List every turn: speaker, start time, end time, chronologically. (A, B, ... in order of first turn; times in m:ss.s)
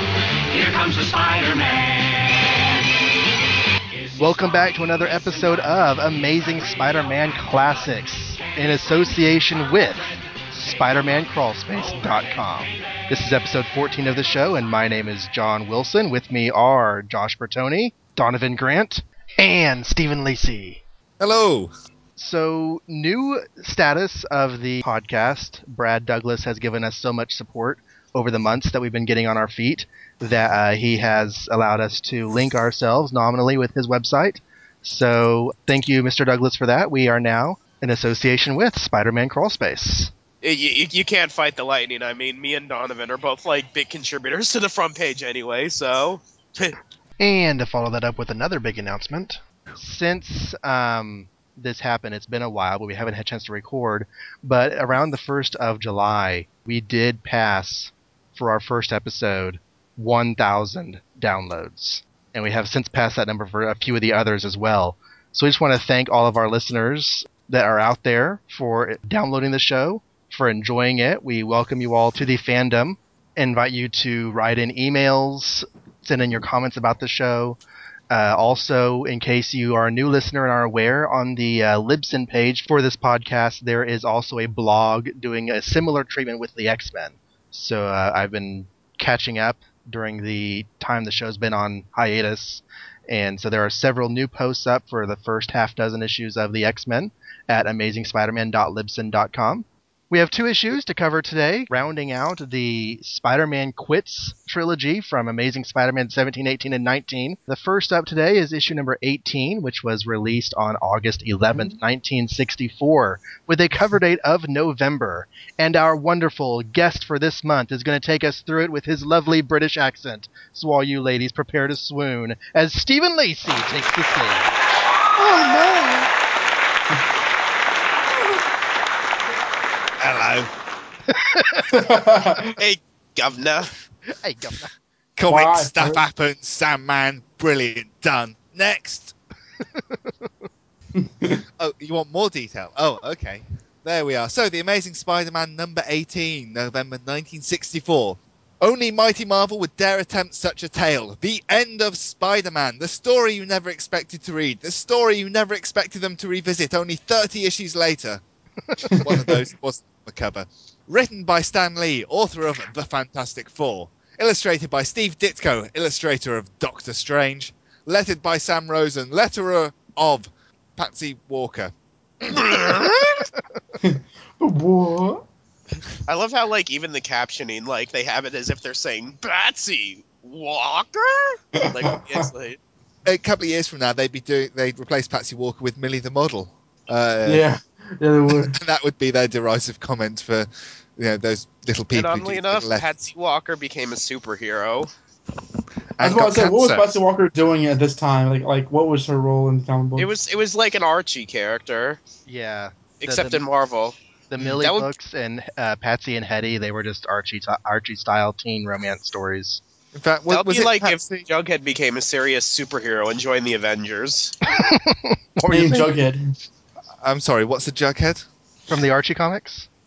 0:00.5-0:02.7 A
0:04.2-0:20.8 B
0:21.2-0:21.7 C
0:22.2-0:40.1 B
0:40.4-0:46.8 D
0:47.2-1:17.6 B
1:18.1-2:04.6 B
2:05.2-2:06.1 D
2:10.0-2:10.5 C
2:11.1-2:11.7 B
2:11.7-2:12.5 E
2:12.6-2:13.7 D
2:14.1-2:14.7 B
2:15.2-2:19.1 C
2:15.3-2:16.0 E
2:19.7-2:20.3 B
2:20.9-2:21.4 E
2:21.6-2:38.2 C
2:38.9-2:51.7 C
2:52.3-2:52.9 D
2:53.8-2:55.2 E
2:56.1-3:02.6 D
3:01.6-3:02.2 E
3:03.0-3:07.4 C
3:07.2-3:08.6 E
3:08.3-3:12.9 C
3:11.9-3:14.9 D
3:16.0-3:16.9 C
3:16.0-3:20.1 E
3:20.0-3:22.0 D
3:22.3-3:23.4 B
3:23.0-3:24.0 D
3:24.3-3:29.6 B
3:24.6-3:24.9 D
3:29.9-3:31.0 C
3:30.3-3:34.3 D
3:34.5-3:36.0 B
3:35.5-3:36.3 E
3:37.0-3:38.2 C
3:38.7-3:39.7 B